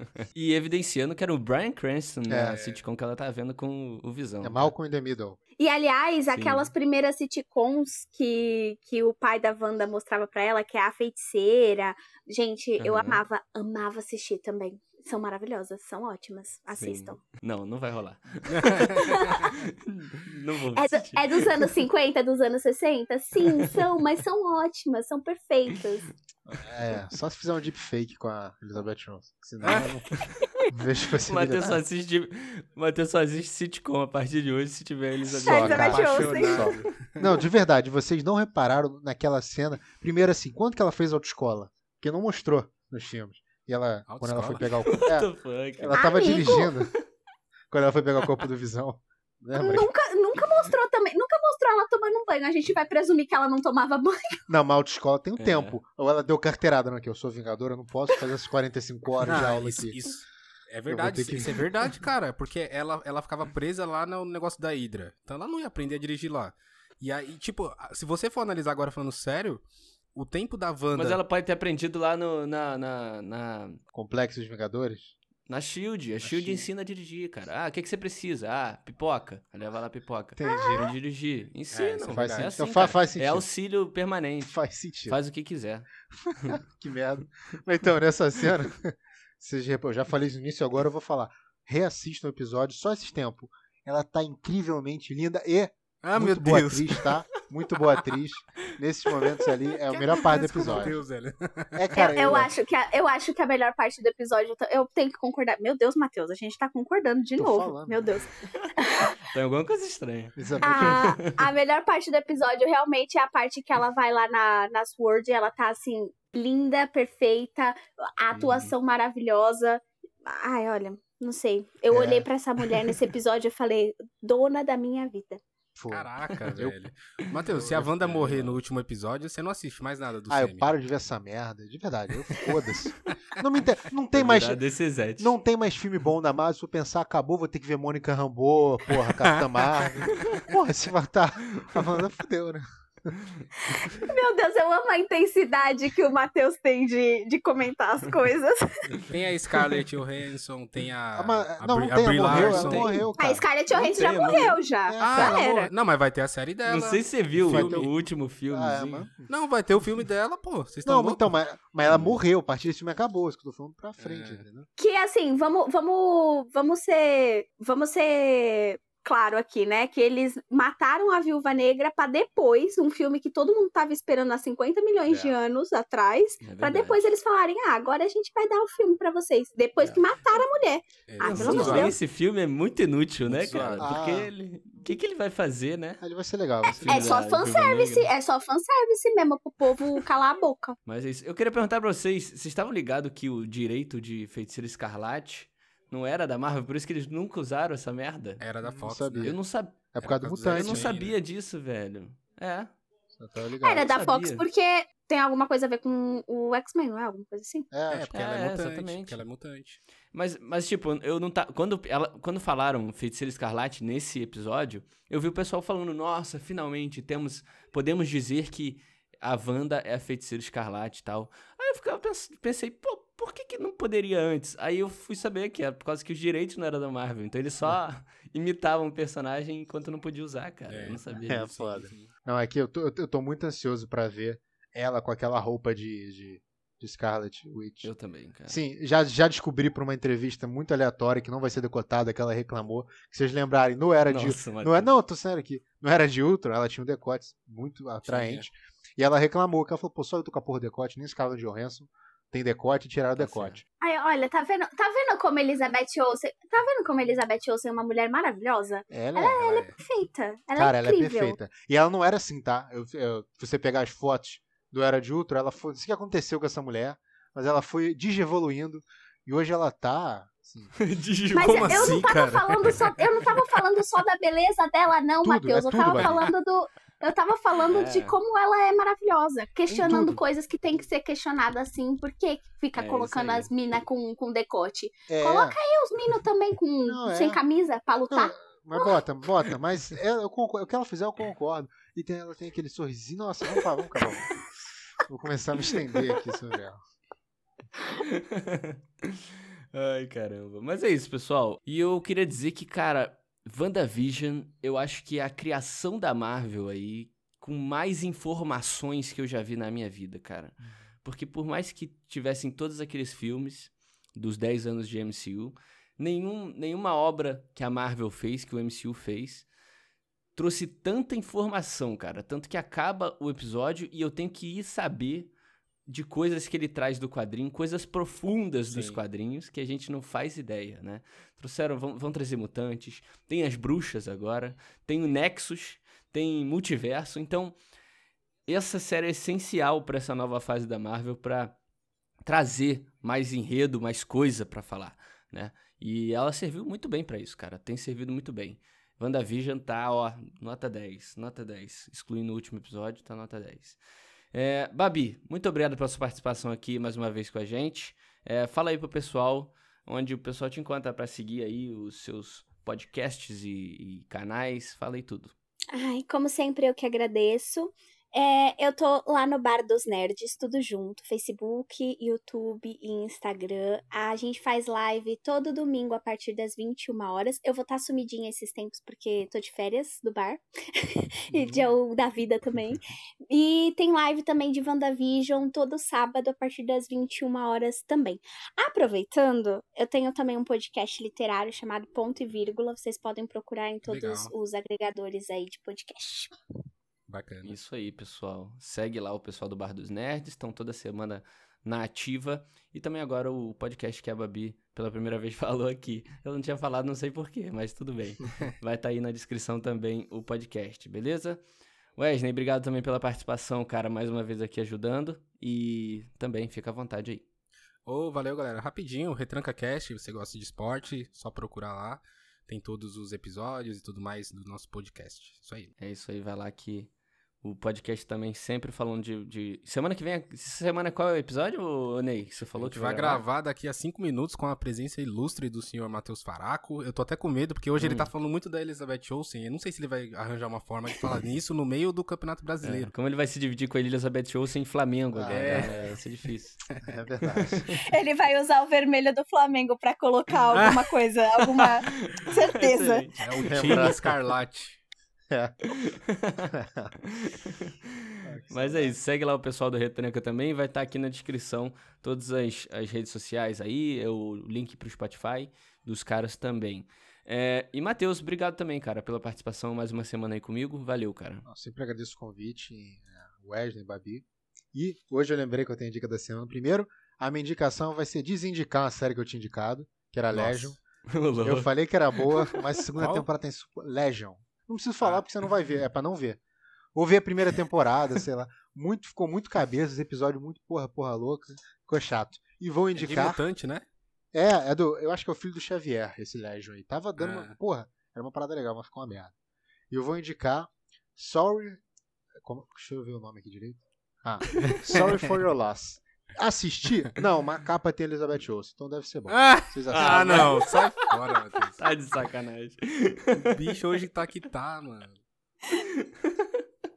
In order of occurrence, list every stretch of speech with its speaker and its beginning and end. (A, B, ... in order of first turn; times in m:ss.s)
0:00.2-0:04.7 A
0:02.3-0:02.6 B
0:02.5-0:02.8 C
0:04.4-0:05.4 B
0:05.6-0:17.2 D
0:06.3-0:06.7 A
0:12.8-0:13.2 A
0:16.7-0:21.7 A
0:18.6-0:18.9 C
0:18.8-0:19.5 D
0:20.8-0:26.1 D
0:26.5-0:30.1 B
0:29.6-0:30.0 C
0:30.7-0:31.8 B
0:31.2-0:36.3 A
0:35.4-0:46.9 B
0:35.4-0:36.7 D
0:35.6-0:37.3 C
0:44.1-0:44.7 C
0:44.9-0:46.7 A
0:46.0-0:46.7 D
0:47.7-0:49.9 B
0:49.6-0:54.4 D
0:54.5-1:00.0 B
0:55.4-0:55.8 A
0:59.2-1:11.2 C
1:00.9-1:01.6 B
1:11.0-1:13.8 A
1:13.9-1:15.1 B
1:15.5-1:24.6 A
1:16.2-1:16.6 B
1:20.4-1:20.8 B
1:20.4-1:20.8 D
1:21.7-1:22.5 C
1:22.1-1:23.5 B
1:24.4-1:25.2 B
1:25.1-1:25.9 A
1:26.5-1:41.0 B
1:36.0-1:37.1 C
1:39.9-1:41.9 C
1:41.7-1:42.5 B
1:42.0-1:49.2 D
1:47.4-1:48.2 B
1:49.2-1:51.4 A
1:50.4-1:51.1 B
1:50.6-2:05.4 D
1:58.3-1:58.7 B
2:01.9-2:02.3 B
2:05.7-2:06.8 B
2:05.9-2:10.8 C
2:07.5-2:08.6 B
2:07.6-2:08.6 A
2:10.3-2:14.6 B
2:14.1-2:15.4 A
2:15.2-2:23.1 B
2:19.2-2:20.0 C
2:23.7-2:28.8 D
2:29.1-2:33.1 C
2:31.1-2:33.4 B
2:32.2-2:33.1 A
2:33.2-2:35.7 D
2:33.7-2:34.6 A
2:34.9-2:35.4 B
2:35.0-2:37.9 C
2:36.7-2:39.1 A
2:37.4-2:37.9 B
2:38.5-2:39.3 B
2:39.3-2:41.3 C
2:40.9-2:44.7 B
2:41.9-2:42.1 A
2:44.0-2:44.4 C
2:44.8-3:02.0 D
2:55.1-2:55.3 C
2:56.4-2:57.0 A
3:01.1-3:02.0 C
3:01.2-3:06.0 A
3:01.4-3:01.8 B
3:03.3-3:03.9 C
3:03.8-3:04.3 B
3:06.0-3:07.2 B
3:06.7-3:08.1 A
3:06.8-3:10.8 D
3:10.9-3:18.4 A
3:18.4-3:19.4 C
3:18.6-3:19.4 B
3:19.2-3:19.8 A
3:19.9-3:20.9 B
3:20.0-3:21.2 C
3:20.5-3:22.7 A
3:23.2-3:23.9 B
3:23.6-3:27.7 D
3:23.9-3:24.4 A
3:27.7-3:28.1 B
3:27.9-3:29.8 C
3:28.1-3:29.2 A
3:30.1-3:51.5 A
3:50.7-3:52.1 C
3:51.1-3:57.9 B
3:57.8-3:58.6 A
3:58.5-4:13.6 B
4:04.1-4:04.9 A
4:08.1-4:08.4 C
4:13.2-4:13.6 A
4:13.8-4:21.4 D
4:18.9-4:19.5 B
4:19.4-4:19.8 C
4:20.6-4:30.7 B
4:30.8-4:32.0 A
4:31.3-4:48.9 D
4:31.4-4:32.9 C
4:35.2-4:36.3 B
4:35.9-4:36.2 C
4:37.7-4:38.2 A
4:39.7-4:40.2 B
4:42.7-4:43.5 A
4:45.1-4:45.6 B
4:46.8-4:47.4 B
4:48.1-4:54.3 B
4:55.0-4:56.8 B
4:58.0-5:19.5 A
5:20.4-5:25.3 A
5:25.9-5:37.6 A
5:28.7-5:29.0 C
5:38.4-5:41.6 A
5:42.2-5:53.8 A
5:54.3-6:05.3 A
6:05.7-6:36.4 D
6:21.3-6:21.7 B
6:33.8-6:34.3 C
6:37.1-6:37.6 C
6:37.4-6:51.4 A
6:52.0-6:57.2 A
6:57.9-7:05.7 C
7:05.8-7:06.9 A
7:07.4-7:13.2 A
7:12.5-7:22.9 C
7:17.8-7:18.1 A
7:22.6-7:26.6 A
7:25.1-7:25.9 B
7:25.3-7:26.0 C
7:26.8-7:27.8 B
7:27.9-7:33.1 D
7:30.5-7:30.8 C
7:32.0-7:33.9 A
7:33.2-7:34.8 C
7:33.5-7:34.0 B
7:35.3-7:35.6 B
7:35.7-7:37.9 A
7:36.6-7:36.9 B
7:38.2-7:38.9 B
7:38.5-7:51.4 A
7:51.4-8:00.8 B
8:00.3-8:00.7 C
8:01.1-8:02.6 A
8:01.4-8:06.4 B
8:03.0-8:03.3 C
8:07.0-8:13.4 B
8:13.0-8:13.9 C
8:14.3-8:19.3 B
8:17.2-8:17.5 C
8:19.9-8:21.8 B
8:22.4-8:30.5 B
8:29.3-8:31.9 C
8:29.9-8:30.8 A
8:31.8-8:33.5 A
8:33.5-8:35.2 C
8:35.7-8:36.6 A